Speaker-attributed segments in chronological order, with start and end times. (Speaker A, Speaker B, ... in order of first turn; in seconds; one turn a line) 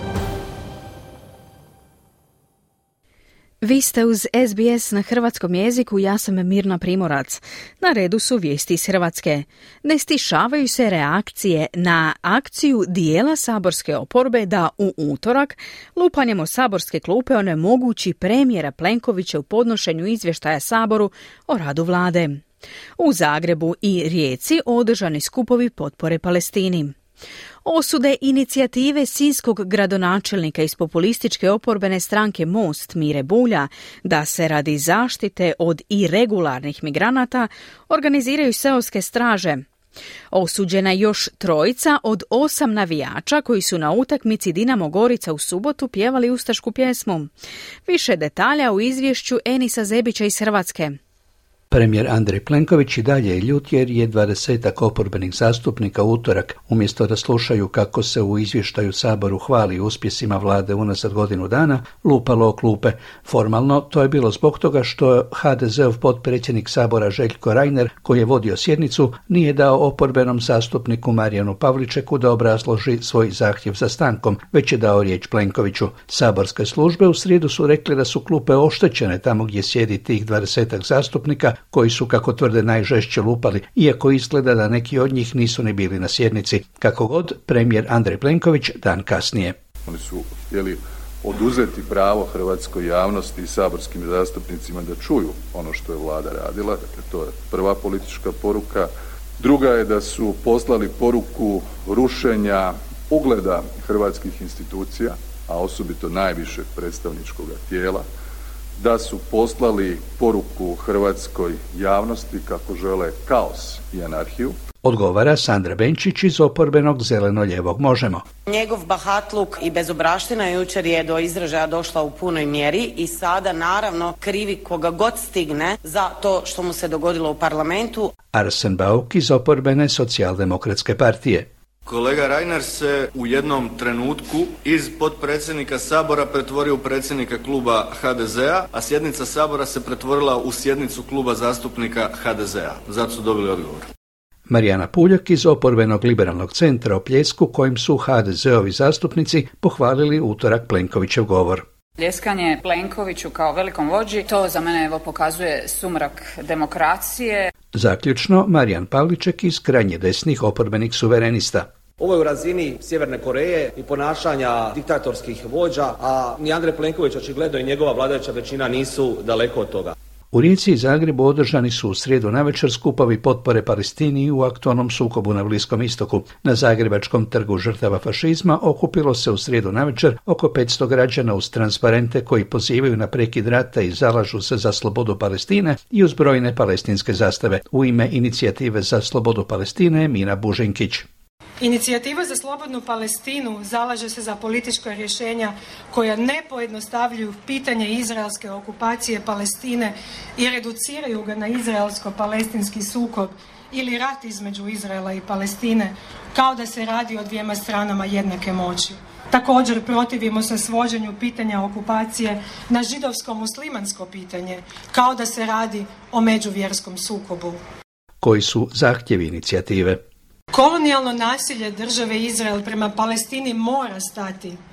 Speaker A: 3.6-22.4
Speaker A: 23.0-26.9
Speaker A: 27.6-39.6
Speaker A: 40.3-47.3
Speaker A: 47.9-51.0
Speaker B: 51.7-89.5
Speaker C: 89.9-108.1
Speaker C: 108.8-114.6
Speaker B: 114.8-118.2
Speaker D: 118.5-128.1
Speaker B: 128.3-131.5
Speaker E: 131.9-143.9
Speaker B: 144.5-151.7
Speaker F: 152.0-157.5
Speaker B: 157.8-161.7
Speaker G: 162.0-169.9
Speaker B: 170.3-191.1
Speaker H: 191.6-217.6
Speaker B: 218.2-220.0
Speaker H: 220.5-224.6